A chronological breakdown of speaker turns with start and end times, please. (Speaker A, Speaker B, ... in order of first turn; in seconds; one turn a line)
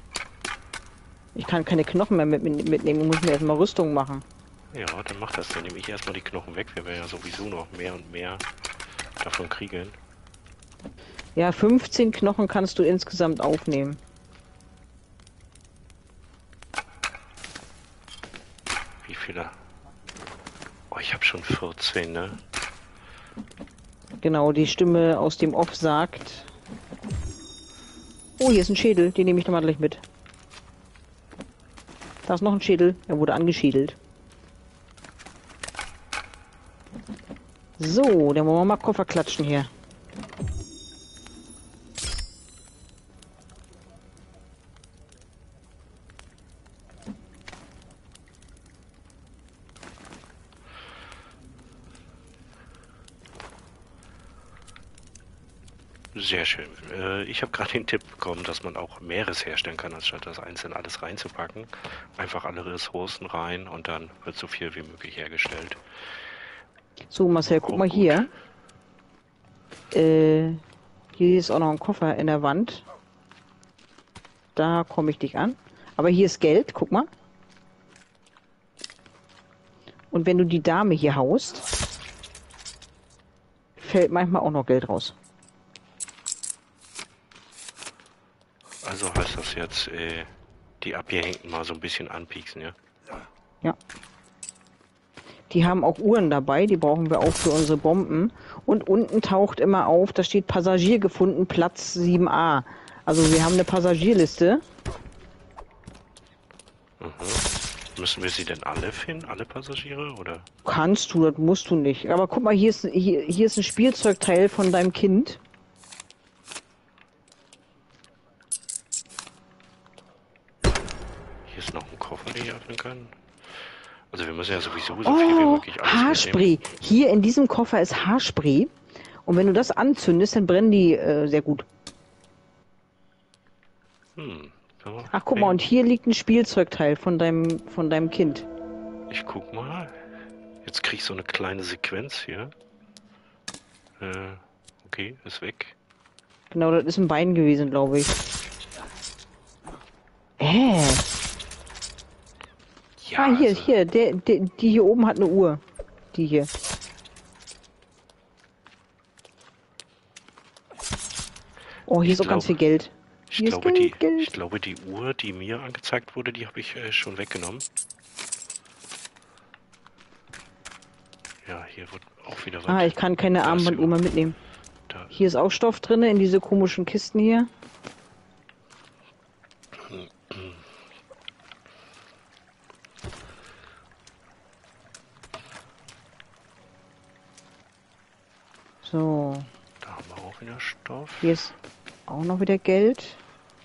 Speaker A: 1.4-4.2
Speaker B: 4.7-8.4
Speaker B: 9.2-10.0
Speaker A: 11.4-14.0
Speaker B: 19.0-19.6
Speaker B: 20.9-22.4
Speaker A: 24.2-26.5
Speaker A: 28.4-30.0
Speaker A: 32.3-34.0
Speaker A: 37.8-39.7
Speaker B: 56.1-65.8
Speaker A: 67.1-68.3
Speaker B: 67.5-68.3
Speaker A: 69.9-70.6
Speaker A: 71.2-72.8
Speaker A: 74.6-77.1
Speaker A: 80.1-81.7
Speaker A: 83.8-85.2
Speaker B: 88.8-92.8
Speaker A: 95.5-104.6
Speaker B: 107.0-110.5
Speaker A: 110.6-115.4
Speaker B: 121.5-126.5
Speaker A: 125.0-128.7
Speaker A: 129.3-131.6
Speaker B: 134.2-135.6
Speaker A: 135.1-138.5
Speaker B: 139.1-140.0
Speaker B: 140.6-142.5
Speaker B: 144.0-145.8
Speaker A: 146.5-148.2
Speaker A: 150.4-151.1
Speaker B: 153.0-153.7
Speaker A: 153.2-155.6
Speaker A: 156.1-156.5
Speaker A: 161.9-164.3
Speaker B: 162.0-162.6
Speaker B: 163.3-167.7
Speaker B: 171.4-173.9
Speaker A: 172.7-174.4
Speaker B: 174.9-175.1
Speaker A: 175.1-177.5
Speaker B: 179.7-180.6
Speaker A: 188.8-189.5
Speaker B: 189.8-191.3
Speaker A: 191.2-191.6
Speaker A: 192.1-193.2